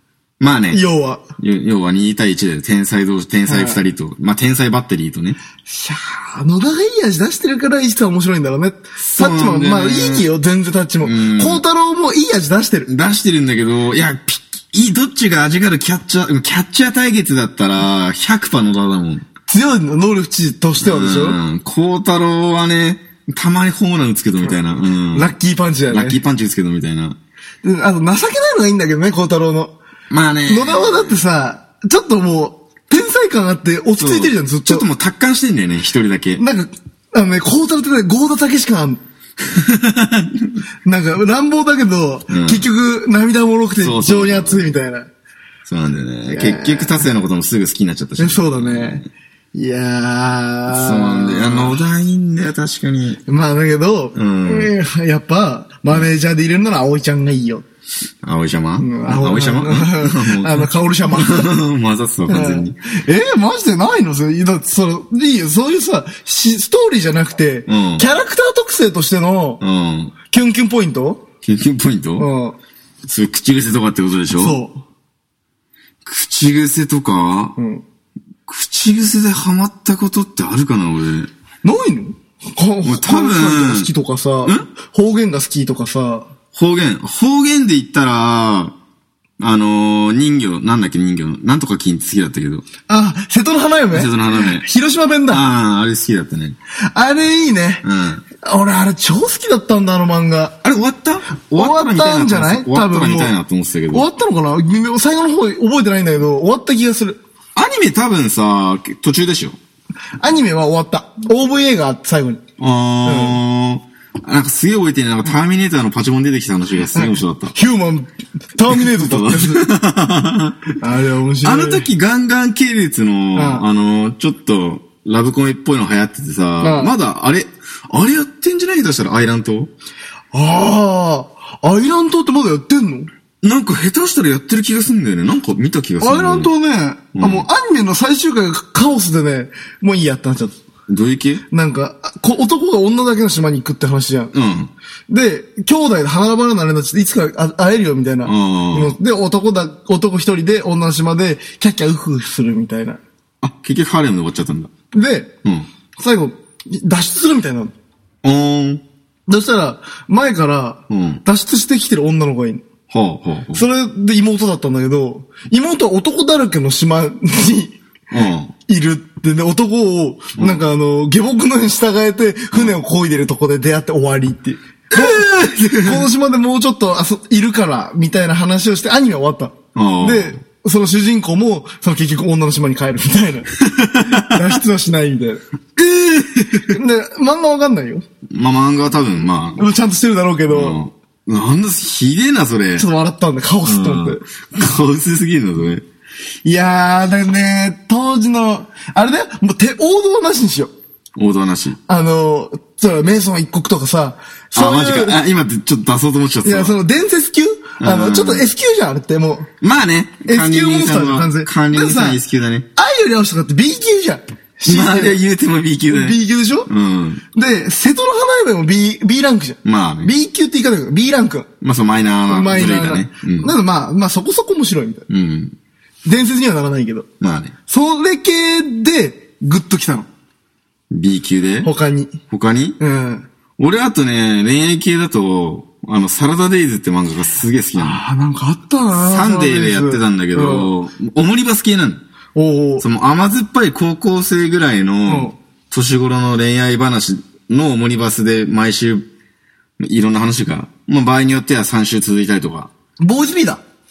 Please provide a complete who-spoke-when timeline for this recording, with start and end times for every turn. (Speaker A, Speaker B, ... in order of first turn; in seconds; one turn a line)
Speaker A: 0.4-0.8
Speaker B: 0.7-1.2
Speaker A: 1.4-5.4
Speaker B: 3.5-3.8
Speaker B: 5.7-12.9
Speaker A: 9.0-10.3
Speaker A: 11.0-11.6
Speaker A: 12.9-19.2
Speaker B: 19.5-21.4
Speaker A: 20.8-25.3
Speaker B: 25.1-26.2
Speaker A: 25.9-27.2
Speaker B: 27.6-29.7
Speaker A: 30.1-31.2
Speaker B: 30.5-34.9
Speaker A: 34.0-36.4
Speaker B: 36.4-39.0
Speaker A: 39.5-40.6
Speaker B: 40.9-45.1
Speaker A: 42.3-42.6
Speaker A: 43.8-44.7
Speaker A: 45.6-49.1
Speaker B: 46.3-47.0
Speaker B: 48.2-51.8
Speaker A: 50.7-53.2
Speaker B: 53.3-57.6
Speaker A: 54.1-54.7
Speaker A: 58.2-62.8
Speaker B: 58.8-61.5
Speaker B: 62.3-69.6
Speaker A: 67.7-68.1
Speaker A: 69.6-70.1
Speaker B: 70.3-71.2
Speaker A: 71.4-72.3
Speaker B: 72.2-72.6
Speaker A: 73.1-74.6
Speaker B: 74.3-74.8
Speaker A: 76.0-77.6
Speaker B: 77.6-77.8
Speaker A: 78.5-81.3
Speaker B: 81.6-86.3
Speaker A: 82.8-83.9
Speaker A: 86.5-88.7
Speaker A: 89.4-92.7
Speaker B: 92.9-95.4
Speaker A: 93.9-94.7
Speaker A: 95.3-96.6
Speaker B: 96.8-97.8
Speaker A: 97.8-98.2
Speaker B: 98.4-100.5
Speaker A: 100.6-104.0
Speaker B: 101.5-103.3
Speaker B: 103.9-107.2
Speaker A: 107.5-109.6
Speaker B: 110.2-112.4
Speaker A: 112.6-117.5
Speaker B: 113.0-113.4
Speaker B: 116.9-119.7
Speaker A: 118.7-120.8
Speaker B: 120.8-121.9
Speaker A: 121.4-129.7
Speaker B: 123.3-123.7
Speaker B: 126.6-126.9
Speaker B: 130.3-133.1
Speaker A: 133.4-136.5
Speaker B: 136.0-140.6
Speaker A: 137.1-137.5
Speaker A: 140.9-141.4
Speaker B: 141.5-144.3
Speaker A: 144.3-144.7
Speaker B: 145.1-153.0
Speaker A: 148.2-149.0
Speaker A: 153.4-154.7
Speaker B: 154.9-155.3
Speaker B: 156.0-157.7
Speaker A: 158.2-158.8
Speaker B: 159.3-162.6
Speaker A: 160.9-161.2
Speaker A: 162.9-163.7
Speaker B: 163.5-167.8
Speaker A: 168.1-168.5
Speaker B: 168.7-183.5
Speaker A: 174.9-176.1
Speaker A: 179.8-180.4
Speaker A: 183.7-184.5
Speaker B: 184.1-185.4
Speaker A: 185.8-186.7
Speaker B: 186.7-188.1
Speaker A: 188.3-189.6
Speaker B: 189.6-190.8
Speaker A: 190.5-192.9
Speaker B: 192.8-194.2
Speaker A: 193.6-195.8
Speaker B: 196.4-200.7
Speaker A: 201.2-201.8
Speaker B: 201.9-205.2
Speaker A: 204.5-206.8
Speaker B: 206.4-209.5
Speaker A: 207.8-208.5
Speaker A: 209.6-212.7
Speaker B: 210.2-212.2
Speaker B: 212.8-215.2
Speaker A: 214.7-217.2
Speaker B: 215.9-216.7
Speaker B: 217.3-221.5
Speaker A: 219.7-220.1
Speaker A: 221.6-223.5
Speaker B: 222.3-225.1
Speaker A: 225.1-225.5
Speaker B: 226.1-227.1
Speaker A: 227.2-227.5
Speaker B: 227.7-230.1
Speaker A: 230.9-231.7
Speaker B: 231.6-232.2
Speaker A: 232.3-232.8
Speaker B: 232.8-233.3
Speaker A: 233.6-238.0
Speaker B: 237.8-240.7
Speaker A: 238.9-242.0
Speaker B: 242.3-242.8
Speaker A: 242.8-249.1
Speaker B: 245.1-245.3
Speaker A: 249.8-252.7
Speaker B: 253.0-253.6